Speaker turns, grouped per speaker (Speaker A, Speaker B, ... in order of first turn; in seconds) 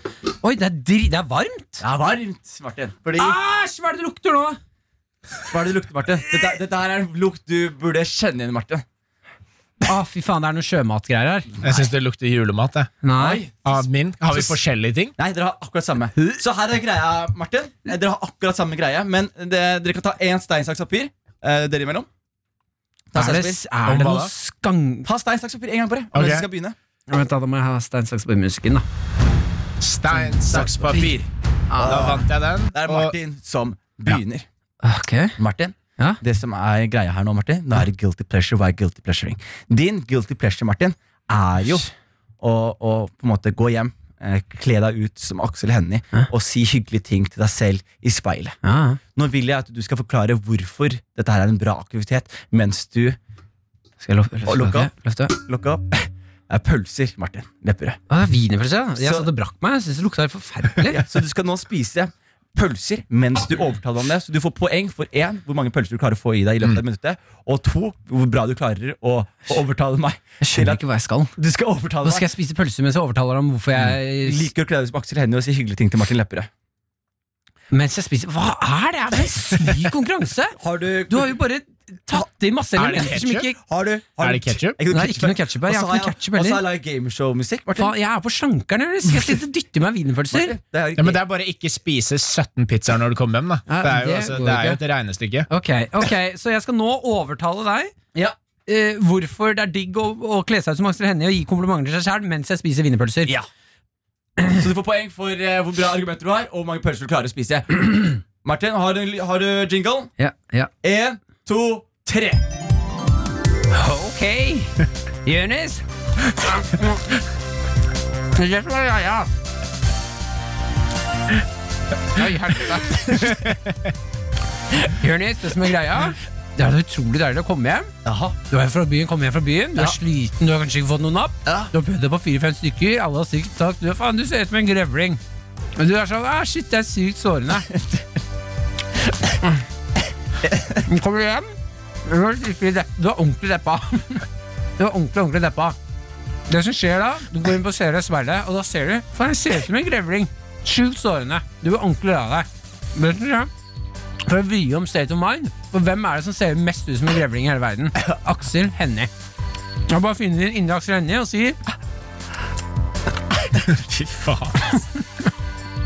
Speaker A: 0.4-1.8, 3.1-4.6, 9.8-11.5, 13.0-13.4, 23.1-25.1, 27.1-28.8, 31.7-32.1, 34.8-35.3, 48.6-49.0, 54.0-55.3, 58.1-61.0, 70.4-71.3, 72.0-74.5, 77.7-80.5, 81.1-83.6, 84.9-86.6, 87.8-90.5, 93.7-94.8, 95.5-97.9, 98.7-103.3, 110.2-110.7, 113.7-115.8, 116.4-117.0, 118.3-119.3, 122.1-123.3, 124.8-127.9, 128.4-135.2, 135.8-137.7, 140.8-141.5, 142.0-144.2, 144.8-145.8, 146.5-153.5, 154.2-159.1, 159.9-161.6
Speaker B: 1.8-3.4, 5.5-8.8, 13.2-14.6, 15.2-22.1, 23.1-23.6, 25.0-26.7, 30.5-31.0, 31.8-34.5, 35.4-41.9, 42.4-48.6, 49.1-53.2, 54.5-58.0, 59.0-59.3, 60.9-70.8, 71.3-72.3, 74.1-76.5, 80.6-81.4, 83.6-87.9, 90.3-91.2, 104.5-110.1, 110.8-112.4, 128.0-128.3, 140.5-140.8
Speaker C: 11.6-12.9, 13.6-15.1, 23.8-24.3, 26.1-26.5, 29.8-31.3, 31.8-33.1, 82.8-83.5, 84.2-84.8, 91.0-95.5, 123.2-123.9, 163.5-164.8